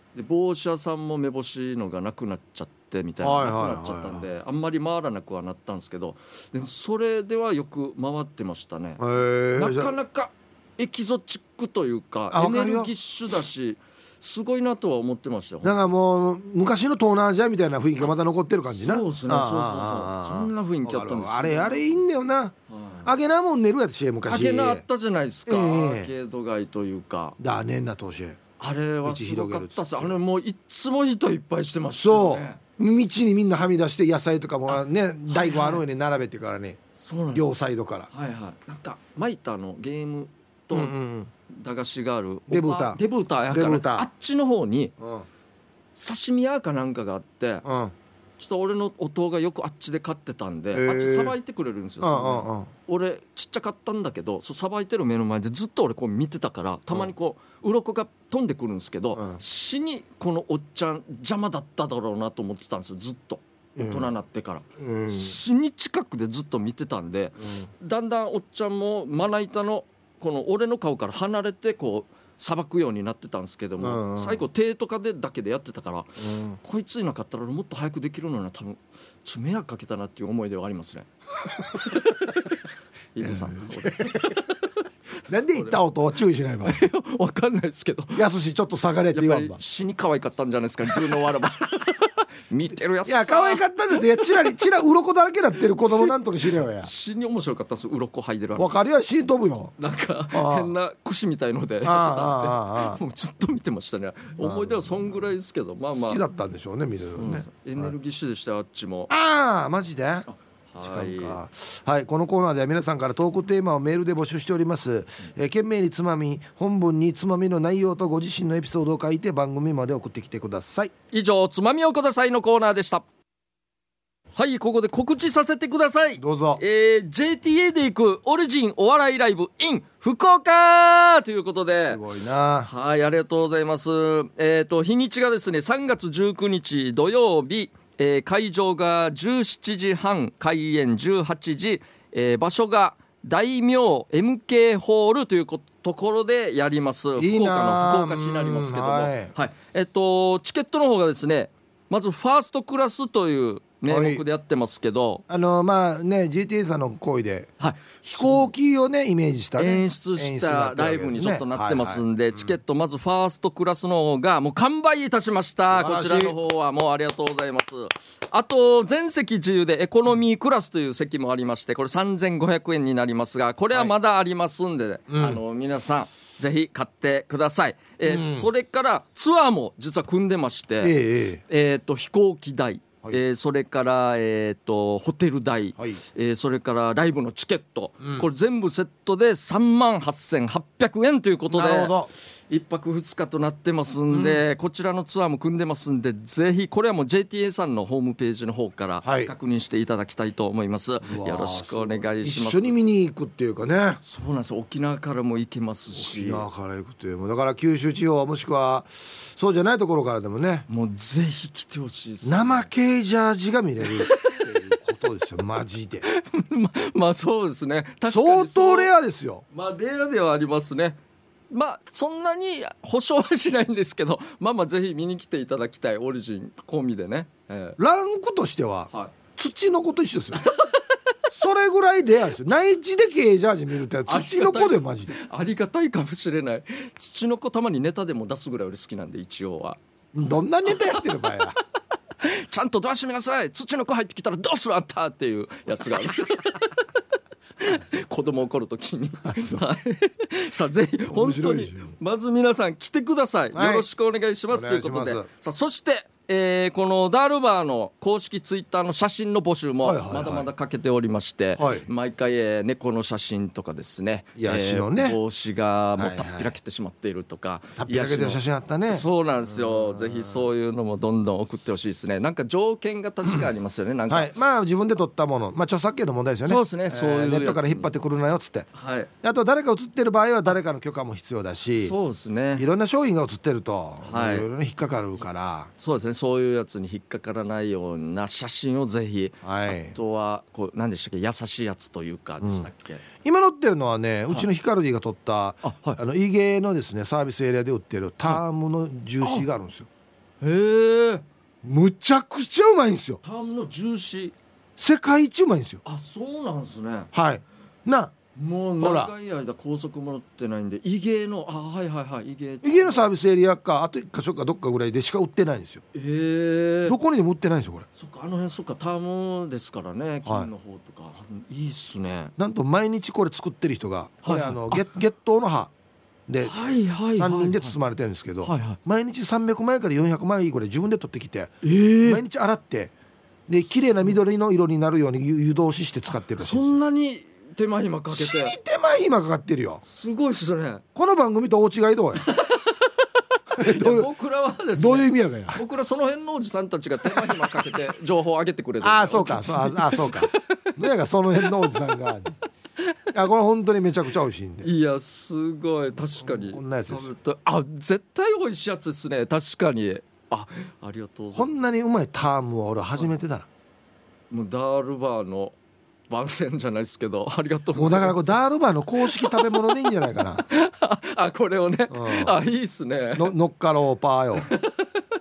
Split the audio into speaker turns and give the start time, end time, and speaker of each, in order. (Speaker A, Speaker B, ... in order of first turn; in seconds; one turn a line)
Speaker A: 0.1-9.0
Speaker B: 3.2-4.2
Speaker B: 9.0-9.9
Speaker A: 9.5-15.8
Speaker B: 12.3-12.9
Speaker B: 15.6-24.8
Speaker A: 18.7-21.9
Speaker A: 22.7-23.1
Speaker A: 24.3-27.4
Speaker B: 25.5-26.1
Speaker B: 27.4-28.4
Speaker A: 28.6-32.6
Speaker B: 29.0-30.1
Speaker B: 31.9-36.8
Speaker A: 34.7-35.8
Speaker A: 37.0-37.5
Speaker B: 37.3-38.1
Speaker A: 38.1-40.9
Speaker B: 40.7-41.3
Speaker A: 41.5-44.9
Speaker B: 42.5-43.0
Speaker B: 43.5-44.1
Speaker B: 45.0-45.2
Speaker A: 45.9-47.6
Speaker B: 47.6-47.9
Speaker A: 48.4-82.6
Speaker B: 50.7-51.3
Speaker B: 52.0-52.7
Speaker B: 59.1-59.4
Speaker B: 63.8-64.1
Speaker B: 64.8-65.3
Speaker B: 73.8-74.4
Speaker B: 76.2-76.6
Speaker A: 83.1-84.6
Speaker B: 83.2-84.4
Speaker B: 85.3-86.8
Speaker A: 86.6-88.2
Speaker B: 88.1-89.6
Speaker A: 89.1-94.5
Speaker B: 93.0-96.9
Speaker A: 95.8-98.7
Speaker B: 98.5-99.7
Speaker A: 99.8-106.2
Speaker B: 100.3-100.7
Speaker B: 101.8-103.0
Speaker B: 104.4-105.2
Speaker B: 105.9-107.8
Speaker A: 107.1-109.1
Speaker B: 109.1-110.3
Speaker A: 110.3-111.4
Speaker B: 110.8-120.9
Speaker A: 121.1-123.0
Speaker A: 124.3-132.0
Speaker B: 126.2-126.6
Speaker B: 131.8-132.7
Speaker A: 132.6-155.2
Speaker B: 147.2-149.3
Speaker B: 153.9-154.2
Speaker B: 155.3-157.5
Speaker A: 157.6-158.5
Speaker B: 158.0-162.0
Speaker A: 159.6-181.0
Speaker B: 165.7-166.3
Speaker B: 175.1-175.4
Speaker B: 178.0-178.5
Speaker B: 180.8-181.4
Speaker A: 181.5-191.9
Speaker B: 191.5-192.1
Speaker A: 192.5-202.7
Speaker B: 194.1-194.4
Speaker B: 199.0-199.3
Speaker B: 201.0-204.0
Speaker A: 204.0-206.4
Speaker B: 205.9-210.7
Speaker A: 210.7-212.7
Speaker B: 212.2-216.0
Speaker A: 213.9-214.6
Speaker A: 216.0-218.9
Speaker B: 218.1-219.4
Speaker A: 219.5-221.0
Speaker A: 221.5-227.8
Speaker B: 227.8-230.4
Speaker A: 230.4-230.7
Speaker B: 231.3-235.1
Speaker A: 234.1-239.8
Speaker B: 240.1-241.6
Speaker A: 240.7-241.0
Speaker A: 242.2-247.0
Speaker A: 247.6-274.3
Speaker B: 249.3-249.6
Speaker B: 251.1-251.9
Speaker B: 253.5-253.9
Speaker B: 254.5-255.3
Speaker B: 259.8-260.5
Speaker B: 261.6-261.9
Speaker B: 264.4-265.2
Speaker B: 266.0-266.5
Speaker B: 267.8-270.3
Speaker B: 274.1-278.7
Speaker A: 276.4-277.9
Speaker A: 278.7-279.1
Speaker B: 279.2-281.9
Speaker A: 281.8-282.6
Speaker B: 282.6-285.7
Speaker A: 284.0-284.5
Speaker A: 285.8-293.0
Speaker B: 289.4-289.9
Speaker B: 293.2-299.9
Speaker A: 295.6-296.0
Speaker A: 300.4-301.2
Speaker B: 301.6-303.2
Speaker A: 303.2-304.3
Speaker B: 304.8-305.8
Speaker A: 305.8-307.1
Speaker B: 307.1-308.1
Speaker A: 308.3-313.0
Speaker B: 308.8-309.1
Speaker B: 312.6-315.8
Speaker A: 315.9-317.0
Speaker B: 316.9-317.9
Speaker A: 317.9-322.3
Speaker B: 322.4-325.7
Speaker A: 324.2-324.9
Speaker B: 326.3-326.5
Speaker A: 326.4-327.8
Speaker B: 327.2-332.9
Speaker A: 328.4-328.8
Speaker A: 331.6-332.2
Speaker B: 333.5-336.8
Speaker A: 336.4-338.6
Speaker B: 338.1-339.8
Speaker A: 339.8-340.8
Speaker B: 340.9-342.2
Speaker A: 342.2-342.9
Speaker A: 343.5-350.8
Speaker B: 343.6-344.1
Speaker B: 344.8-345.6
Speaker B: 348.8-352.4
Speaker B: 353.1-354.7
Speaker A: 354.6-361.5
Speaker B: 356.2-357.1
Speaker B: 361.3-363.5
Speaker A: 364.3-365.5
Speaker A: 366.1-368.4
Speaker B: 367.7-370.4
Speaker A: 369.0-369.8
Speaker A: 370.4-373.3
Speaker B: 371.9-372.4
Speaker B: 373.1-374.5
Speaker A: 374.4-374.9